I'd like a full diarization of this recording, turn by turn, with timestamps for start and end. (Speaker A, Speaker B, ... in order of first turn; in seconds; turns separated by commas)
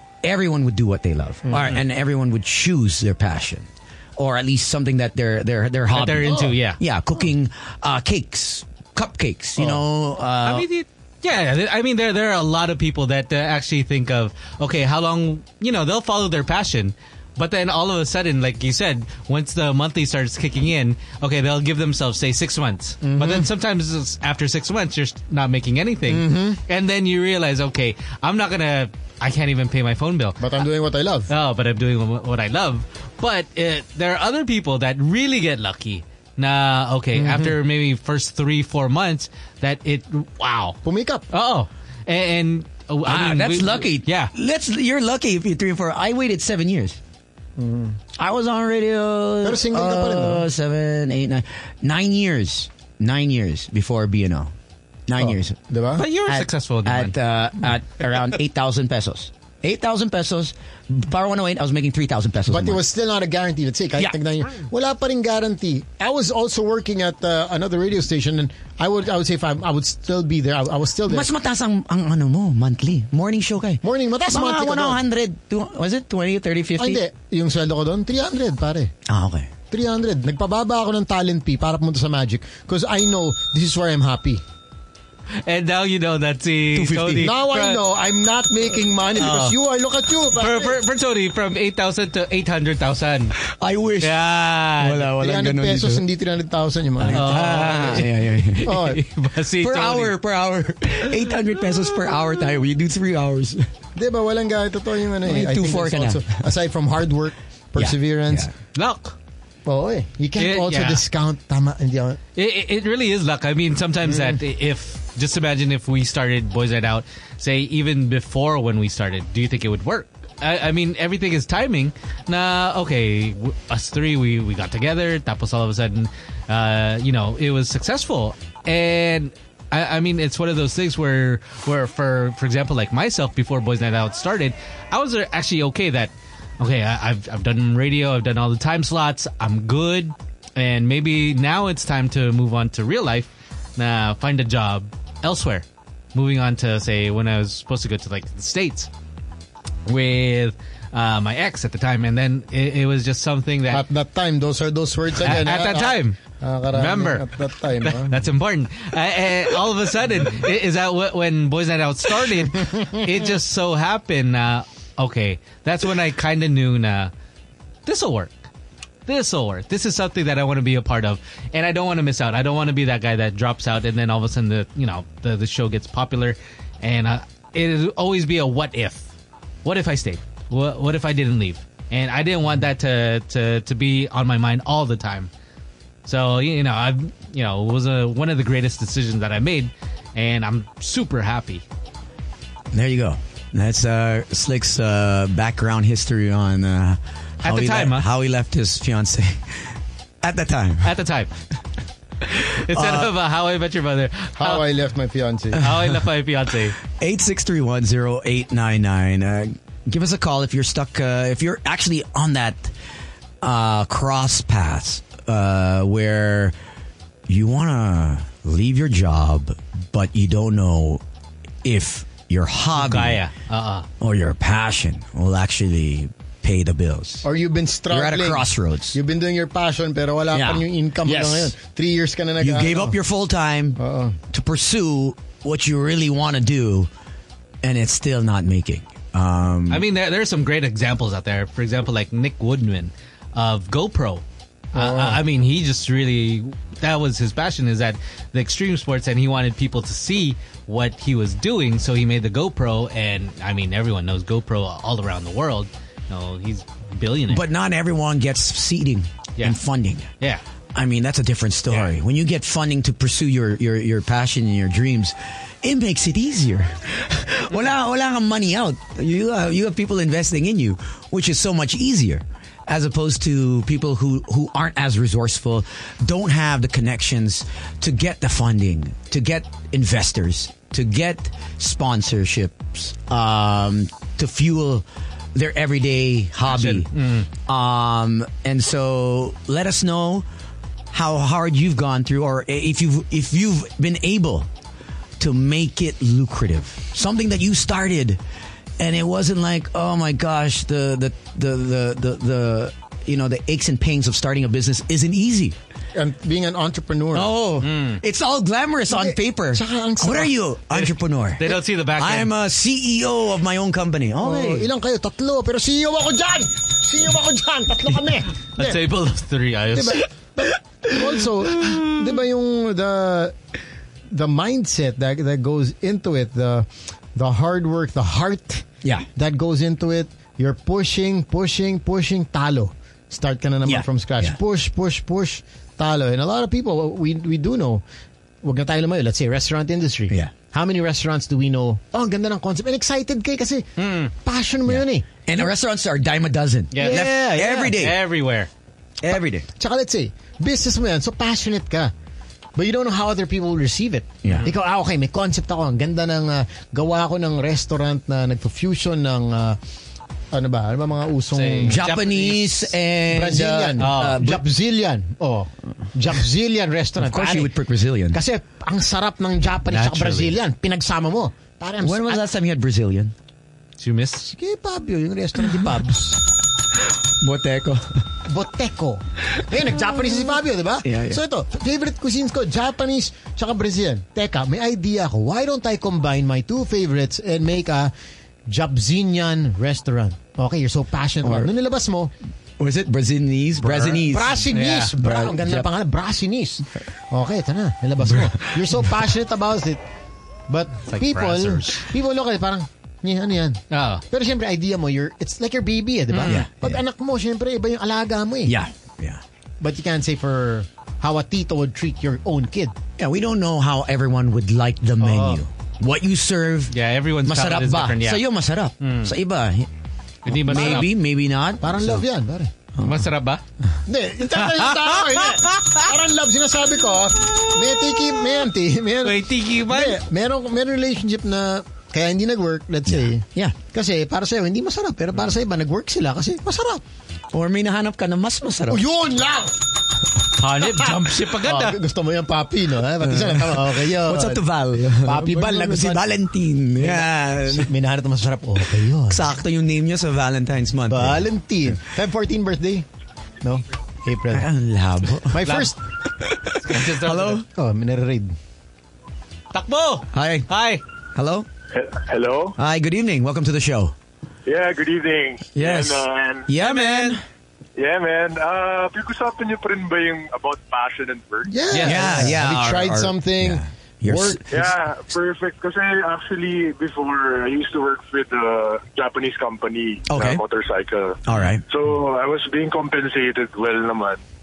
Speaker A: 0.2-10.7, Speaker B: 5.9-6.8, Speaker C: 6.2-6.5, Speaker B: 10.4-30.4, Speaker C: 23.0-23.5, Speaker C: 26.1-26.6, Speaker C: 30.4-31.3, Speaker B: 31.3-40.8, Speaker C: 37.1-37.5, Speaker C: 40.8-41.3, Speaker B: 41.3-44.3, Speaker A: 43.0-47.0, Speaker C: 47.6-48.0, Speaker A: 48.1-54.5, Speaker C: 49.4-50.5, Speaker A: 55.1-55.6, Speaker C: 55.2-56.1, Speaker B: 56.0-57.2, Speaker A: 56.3-62.8, Speaker C: 62.5-71.3, Speaker A: 71.1-77.0, Speaker C: 73.8-75.0, Speaker C: 76.8-78.9, Speaker A: 79.1-79.5, Speaker C: 79.7-84.4, Speaker B: 85.4-87.8, Speaker A: 86.7-87.3, Speaker C: 87.2-90.8, Speaker B: 89.2-89.6, Speaker B: 90.4-93.4, Speaker A: 93.4-96.0, Speaker B: 94.0-95.1, Speaker C: 95.2-98.0, Speaker A: 97.0-98.9, Speaker B: 97.1-100.2, Speaker C: 98.6-99.0, Speaker A: 99.6-103.7, Speaker C: 104.0-108.5, Speaker A: 105.2-106.5, Speaker A: 107.8-108.5, Speaker B: 108.7-109.2, Speaker C: 109.7-112.2, Speaker B: 110.4-111.0, Speaker B: 112.3-148.9, Speaker C: 114.1-114.4, Speaker B: 149.9-153.8, Speaker C: 153.7-158.2, Speaker B: 155.2-156.2, Speaker B: 156.7-157.3, Speaker B: 157.8-167.1, Speaker C: 162.6-163.0, Speaker B: 167.9-168.4, Speaker B: 169.1-179.1, Speaker B: 179.7-185.3, Speaker B: 186.1-191.6, Speaker A: 192.7-200.9, Speaker B: 197.4-198.1, Speaker B: 200.8-201.3, Speaker B: 202.3-204.6, Speaker A: 202.7-203.1, Speaker C: 204.4-205.7, Speaker B: 205.6-206.8, Speaker A: 206.8-212.7, Speaker A: 213.4-216.6, Speaker A: 217.3-221.0, Speaker A: 221.6-223.2, Speaker B: 222.8-223.9, Speaker A: 224.0-227.3, Speaker C: 227.2-233.0, Speaker A: 227.9-229.0, Speaker A: 230.3-231.5, Speaker A: 232.4-236.9, Speaker C: 233.8-234.2, Speaker A: 237.6-239.9, Speaker B: 239.7-257.4, Speaker C: 244.7-245.2, Speaker A: 257.3-260.1, Speaker A: 260.7-290.3, Speaker B: 286.5-287.3, Speaker A: 290.9-294.5, Speaker A: 295.2-298.2, Speaker A: 298.8-305.6, Speaker C: 306.0-307.3, Speaker A: 307.1-314.7, Speaker B: 307.6-308.0, Speaker C: 308.9-310.3, Speaker B: 310.7-312.3, Speaker C: 314.2-318.8, Speaker B: 318.6-320.0, Speaker C: 319.7-323.4, Speaker C: 324.1-337.8, Speaker A: 333.6-334.4, Speaker C: 338.4-345.1, Speaker B: 343.8-344.1, Speaker A: 344.7-348.0, Speaker B: 346.7-348.5, Speaker C: 346.8-347.7, Speaker A: 349.0-349.5, Speaker C: 349.6-351.9, Speaker C: 352.6-359.6, Speaker C: 360.3-361.8, Speaker B: 361.3-362.6, Speaker A: 361.7-364.4, Speaker C: 363.1-367.5, Speaker B: 363.8-364.2, Speaker A: 367.0-368.2, Speaker C: 368.1-372.2, Speaker B: 369.7-370.4, Speaker A: 371.8-373.1, Speaker B: 373.8-374.3, Speaker C: 374.3-376.2, Speaker A: 377.2-378.0, Speaker C: 378.3-387.9, Speaker A: 380.8-381.2, Speaker C: 388.5-392.1, Speaker A: 391.2-391.5, Speaker A: 392.6-394.5, Speaker B: 393.6-394.9, Speaker C: 394.0-399.8, Speaker A: 395.0-395.7, Speaker C: 400.5-408.6, Speaker B: 400.9-401.9, Speaker B: 403.7-404.0, Speaker B: 406.1-406.4, Speaker A: 406.3-406.8, Speaker A: 408.5-409.2, Speaker C: 409.6-412.8, Speaker A: 413.0-419.7, Speaker C: 415.0-415.4, Speaker B: 416.7-418.2, Speaker B: 418.8-419.1, Speaker B: 420.2-420.9, Speaker A: 420.3-422.0, Speaker C: 420.5-420.9, Speaker C: 421.6-422.5, Speaker A: 422.8-423.0, Speaker B: 422.8-423.4, Speaker C: 423.9-436.8, Speaker B: 429.0-430.0, Speaker A: 432.9-433.6, Speaker A: 437.3-438.8, Speaker C: 438.7-439.5, Speaker B: 440.4-441.8, Speaker C: 440.6-444.4, Speaker A: 443.0-447.7, Speaker C: 445.0-446.0, Speaker C: 446.8-449.2, Speaker A: 449.1-451.3, Speaker C: 450.9-452.9, Speaker C: 453.4-454.5, Speaker A: 454.3-455.6, Speaker C: 455.3-455.8, Speaker A: 456.2-457.4, Speaker B: 456.6-457.4, Speaker C: 457.5-458.4, Speaker B: 459.5-460.8, Speaker A: 460.1-460.5, Speaker A: 461.1-461.5, Speaker D: 461.7-462.6, Speaker A: 462.6-463.9, Speaker D: 464.5-466.5, Speaker A: 465.6-467.2, Speaker B: 466.6-467.2, Speaker D: 467.8-471.5, Speaker C: 471.5-474.4, Speaker B: 471.7-472.3, Speaker A: 471.8-474.7, Speaker D: 474.5-484.2, Speaker A: 480.1-480.4, Speaker A: 481.2-481.6